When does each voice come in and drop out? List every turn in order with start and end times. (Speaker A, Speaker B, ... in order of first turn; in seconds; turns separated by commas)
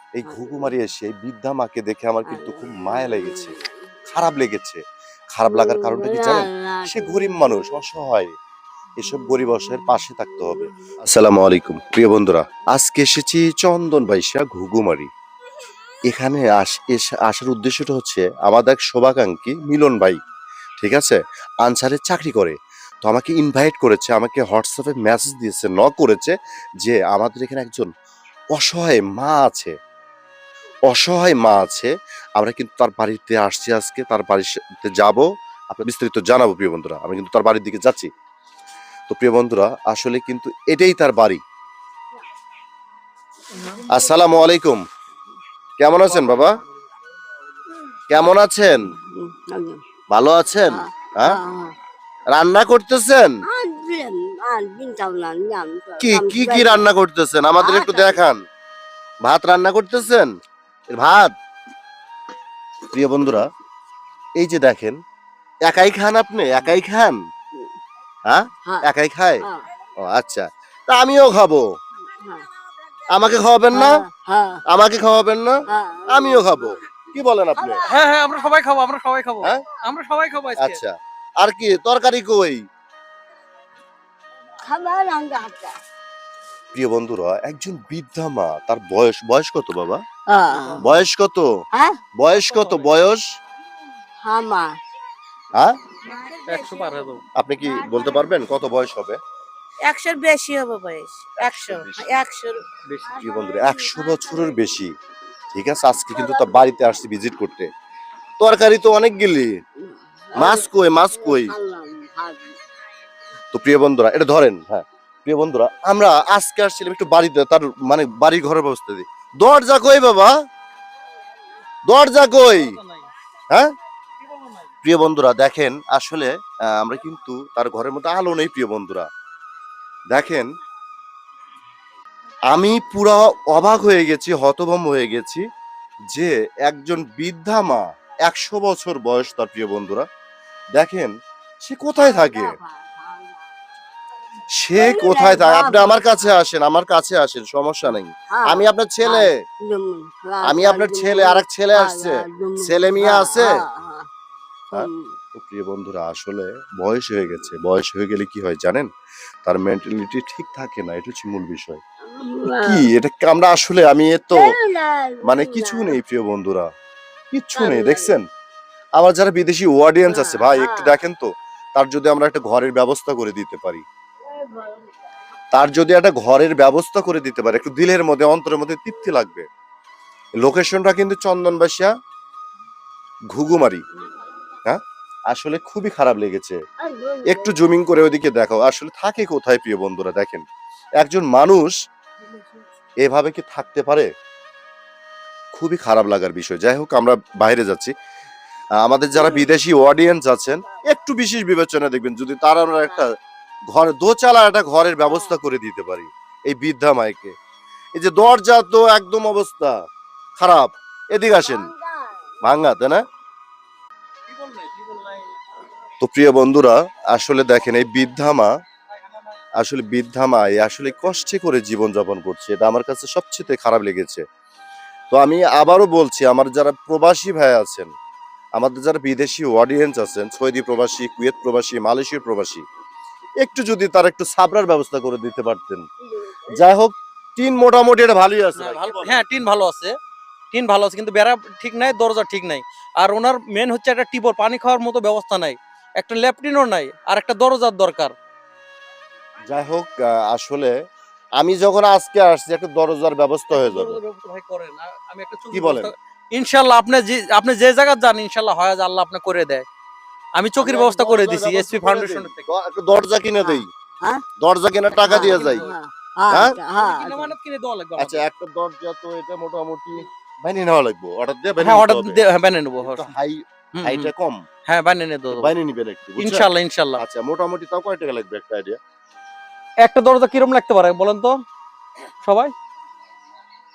Speaker A: 0.2-3.6, Speaker B: 0.2-0.8, Speaker B: 2.3-4.0, Speaker A: 4.1-4.8, Speaker A: 5.3-8.3, Speaker B: 5.5-7.8, Speaker A: 9.0-15.1, Speaker B: 9.0-10.9, Speaker A: 16.1-20.2, Speaker A: 20.8-27.9, Speaker A: 28.5-29.7, Speaker A: 30.9-38.1, Speaker A: 39.1-41.4, Speaker A: 43.8-44.8, Speaker A: 45.8-46.6, Speaker A: 48.1-48.8, Speaker B: 48.9-49.8, Speaker A: 50.1-51.4, Speaker B: 50.7-51.7, Speaker A: 52.3-53.4, Speaker B: 53.5-56.9, Speaker A: 56.0-58.4, Speaker B: 57.6-58.2, Speaker A: 59.2-60.3, Speaker A: 60.9-61.3, Speaker A: 62.9-63.5, Speaker A: 64.4-65.0, Speaker A: 65.7-67.2, Speaker A: 68.3-69.5, Speaker A: 70.0-71.7, Speaker B: 72.2-72.5, Speaker A: 73.1-74.0, Speaker B: 73.7-74.6, Speaker A: 74.7-77.8, Speaker B: 75.7-76.8, Speaker B: 77.6-77.9, Speaker C: 77.9-80.8, Speaker A: 80.6-82.6, Speaker B: 84.7-85.8, Speaker A: 86.7-90.0, Speaker B: 90.3-90.8, Speaker C: 90.5-91.0, Speaker A: 90.8-91.5, Speaker B: 91.7-92.0, Speaker A: 92.2-93.2, Speaker C: 92.3-93.0, Speaker B: 94.2-94.7, Speaker C: 96.5-97.2, Speaker A: 97.4-99.2, Speaker D: 99.9-102.6, Speaker A: 101.4-102.3, Speaker C: 102.9-103.2, Speaker A: 103.2-104.9, Speaker A: 105.5-107.7, Speaker B: 106.2-106.6, Speaker A: 108.4-109.5, Speaker B: 109.9-112.6, Speaker A: 110.3-111.5, Speaker A: 113.5-120.3, Speaker A: 121.9-122.8, Speaker C: 122.4-123.1, Speaker C: 124.2-124.7, Speaker A: 124.8-129.1, Speaker A: 130.1-130.5, Speaker A: 132.5-135.4, Speaker A: 136.1-140.1, Speaker A: 140.8-141.1, Speaker A: 141.6-142.5, Speaker B: 142.0-143.4, Speaker A: 144.6-149.3, Speaker B: 144.8-146.3, Speaker B: 147.9-154.1, Speaker A: 150.4-153.5, Speaker B: 154.7-155.2, Speaker A: 154.7-158.9, Speaker A: 159.4-161.8, Speaker B: 162.1-162.9, Speaker A: 162.6-164.6, Speaker B: 164.3-166.0, Speaker A: 165.2-166.7, Speaker A: 167.3-168.2, Speaker B: 167.6-168.2, Speaker A: 169.0-173.8, Speaker B: 170.1-171.0, Speaker A: 175.5-179.5, Speaker A: 180.4-181.9, Speaker A: 183.3-183.8, Speaker A: 184.7-186.6, Speaker B: 186.8-187.6, Speaker A: 187.2-190.4, Speaker A: 191.0-191.8, Speaker A: 193.0-194.1, Speaker A: 195.5-197.9, Speaker A: 198.8-203.1, Speaker B: 199.2-199.4, Speaker A: 203.7-207.3, Speaker B: 205.1-205.4, Speaker A: 207.9-209.7, Speaker A: 210.4-211.7, Speaker B: 211.3-212.2, Speaker A: 212.4-213.0, Speaker C: 214.4-215.1, Speaker A: 216.0-218.5, Speaker A: 219.6-224.2, Speaker A: 225.1-227.9, Speaker A: 228.6-232.7, Speaker A: 233.4-235.9, Speaker A: 236.5-239.2, Speaker C: 238.6-239.9, Speaker C: 240.5-248.1, Speaker A: 249.5-250.7, Speaker A: 251.4-254.0, Speaker C: 253.5-259.7, Speaker A: 255.5-255.9, Speaker C: 260.4-262.5, Speaker A: 260.6-263.7, Speaker B: 263.4-264.2, Speaker A: 264.4-265.7, Speaker C: 264.9-265.7, Speaker B: 265.1-267.3, Speaker A: 266.3-266.6, Speaker C: 266.8-268.2, Speaker A: 268.0-272.2, Speaker C: 271.6-273.1, Speaker A: 272.8-274.4, Speaker C: 273.8-274.1, Speaker C: 274.7-275.5, Speaker A: 275.3-278.8, Speaker C: 276.2-277.0, Speaker C: 279.8-281.4, Speaker C: 282.2-282.5